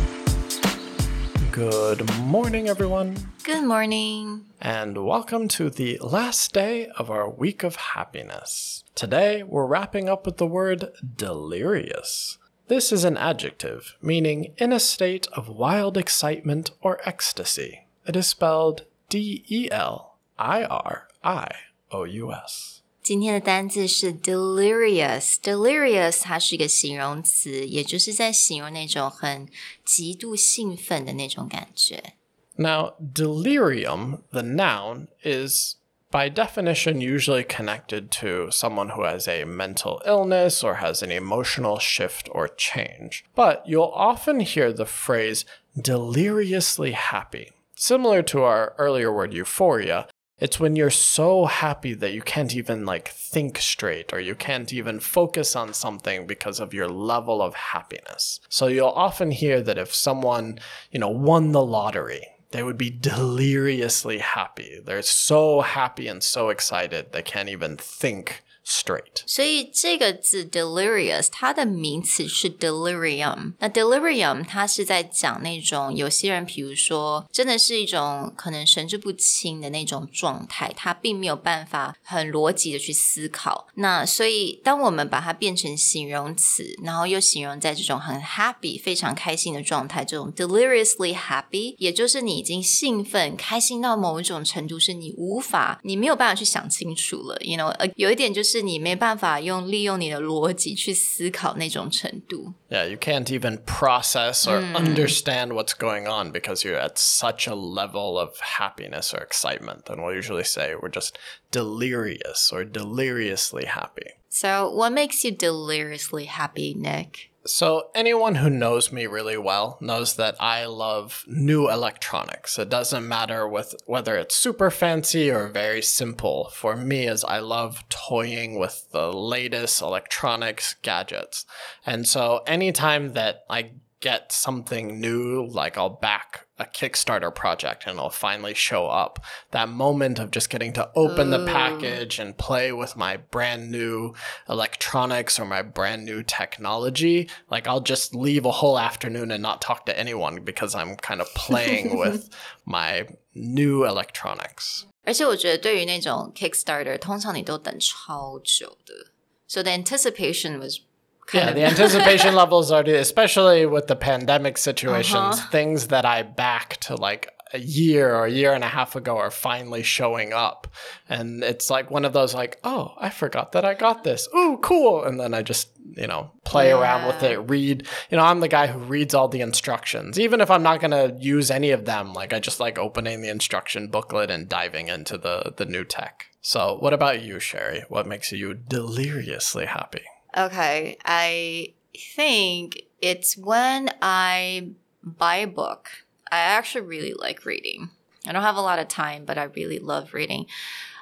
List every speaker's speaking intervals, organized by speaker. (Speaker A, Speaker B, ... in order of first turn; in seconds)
Speaker A: 1.4-3.3, 4.6-22.8, 32.6-69.3, 102.7-114.1, 117.5-154.8, 161.3-190.1
Speaker B: 3.4-4.5, 23.0-32.1, 69.3-102.5, 104.4-105.2, 114.3-117.3, 141.0-142.0, 155.0-162.3, 164.9-165.5, 176.5-177.4, 190.3-200.5